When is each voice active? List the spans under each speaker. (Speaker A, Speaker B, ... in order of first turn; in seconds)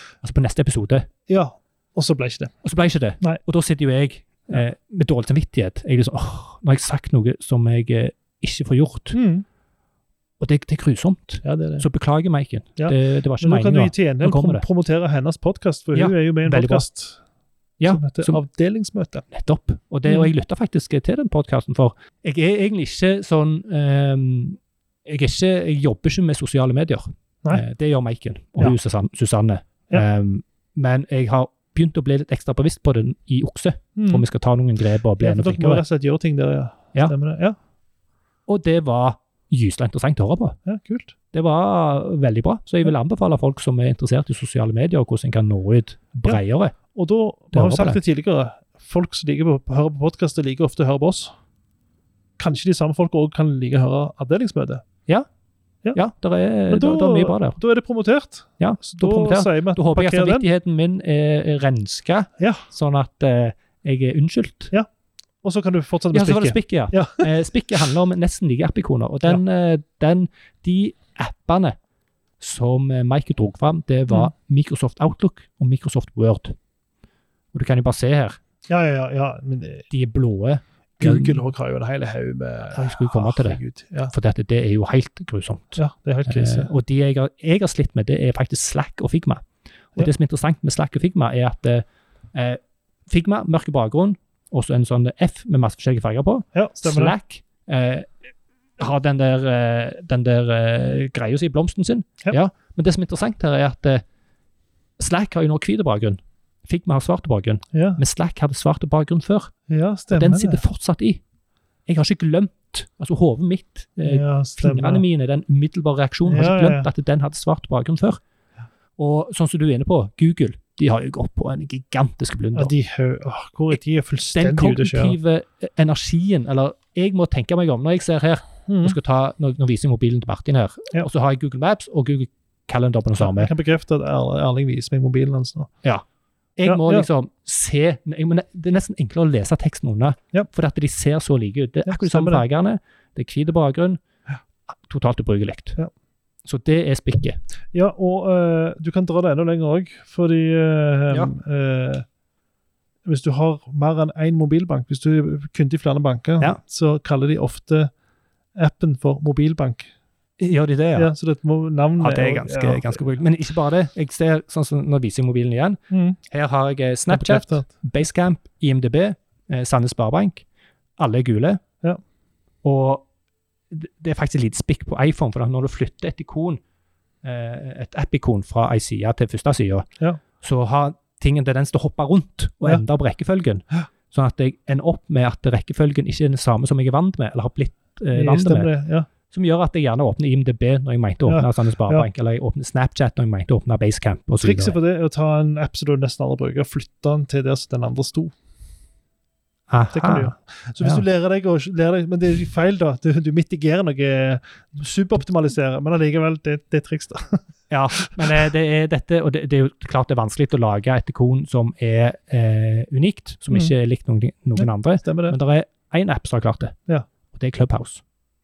Speaker A: 0.2-1.1, 2.6-9.1, 10.4-14.6, 15.9-16.8, 17.8-18.4, 19.3-35.8, 38.5-40.5, 41.3-46.7, 47.5-48.0, 55.9-57.6, 58.6-64.7, 66.1-71.8, 72.4-76.5, 77.5-78.4, 79.9-81.4, 82.7-89.4, 90.0-98.1, 98.8-104.0, 105.0-109.5, 110.1-111.2, 111.8-118.2, 119.0-122.7, 124.3-133.5, 136.6-144.0, 144.8-145.8, 146.4-147.4, 160.4-161.1, 162.0-170.4, 171.0-171.6, 172.6-173.1, 173.7-176.6, 177.2-179.9, 180.4-188.7, 189.3-194.7, 199.7-201.0, 207.7-216.7, 217.3-218.0
Speaker B: 1.3-2.5, 9.1-9.4, 11.4-11.8, 12.8-17.2, 17.8-19.2, 34.0-34.2, 35.2-37.5, 40.6-41.1, 46.9-51.3, 52.4-54.8, 56.7-60.5, 62.4-62.6, 65.4-67.3, 78.7-79.8, 81.0-84.1, 85.8-86.7, 96.5-97.1, 107.7-108.0, 109.7-110.6, 114.0-115.0, 116.2-116.9, 122.5-125.2, 128.7-128.9, 133.2-135.7, 136.6-137.1, 141.8-142.4, 147.7-152.1, 153.1-157.9, 158.6-159.9, 160.9-163.1, 165.9-166.2, 167.1-167.7, 188.1-189.1, 191.3-192.1, 194.4-198.3, 199.9-208.4, 214.6-215.4